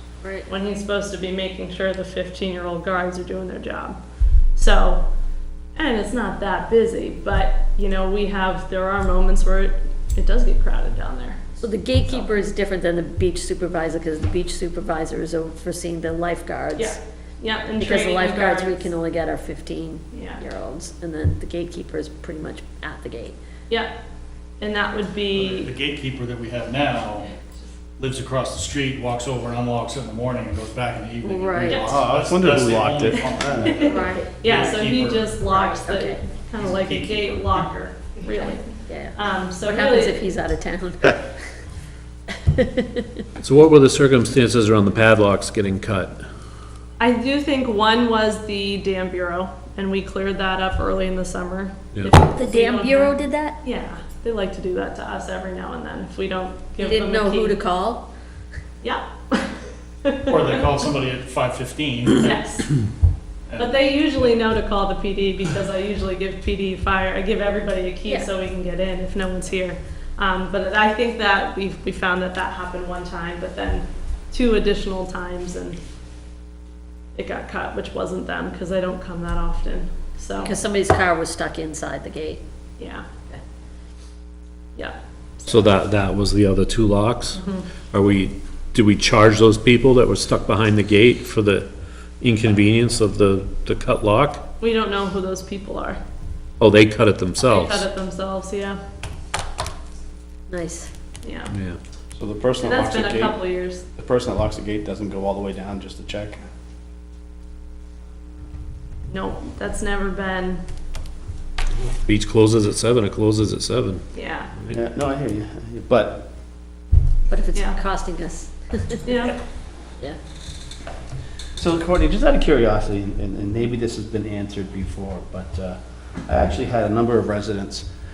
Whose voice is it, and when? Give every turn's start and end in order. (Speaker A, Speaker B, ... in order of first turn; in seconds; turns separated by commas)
Speaker A: 0.2-0.5, Speaker B: 0.5-4.0, Speaker B: 4.5-5.0, Speaker B: 5.8-12.3, Speaker A: 11.6-17.0, Speaker B: 16.8-18.8, Speaker A: 17.8-23.4, Speaker B: 20.1-20.4, Speaker B: 24.6-25.7, Speaker C: 25.3-27.3, Speaker C: 28.0-35.4, Speaker A: 31.2-32.0, Speaker D: 31.7-33.8, Speaker B: 31.7-32.0, Speaker B: 33.7-40.3, Speaker A: 33.8-34.3, Speaker A: 35.5-36.2, Speaker C: 36.6-37.7, Speaker A: 38.3-41.4, Speaker A: 42.5-43.1, Speaker E: 43.4-46.2, Speaker B: 47.0-57.6, Speaker A: 52.3-53.6, Speaker A: 56.8-58.1, Speaker B: 58.8-60.5, Speaker C: 60.3-62.4, Speaker B: 62.2-62.7, Speaker C: 63.5-64.4, Speaker B: 63.6-75.8, Speaker B: 77.1-80.5, Speaker A: 80.4-82.4, Speaker B: 82.8-83.1, Speaker B: 84.8-85.5, Speaker E: 85.5-91.7, Speaker B: 87.3-87.7, Speaker E: 92.2-94.4, Speaker B: 94.6-96.0, Speaker E: 96.6-97.8, Speaker B: 97.5-98.8, Speaker A: 100.5-100.9, Speaker B: 101.2-101.5, Speaker E: 101.5-101.8, Speaker D: 102.2-103.4, Speaker B: 102.6-103.8, Speaker D: 104.0-106.4, Speaker B: 109.1-110.6, Speaker E: 112.0-114.0, Speaker B: 114.1-114.5, Speaker D: 114.7-116.3, Speaker A: 117.3-119.1, Speaker B: 117.5-117.8, Speaker B: 119.0-119.4, Speaker D: 121.6-127.8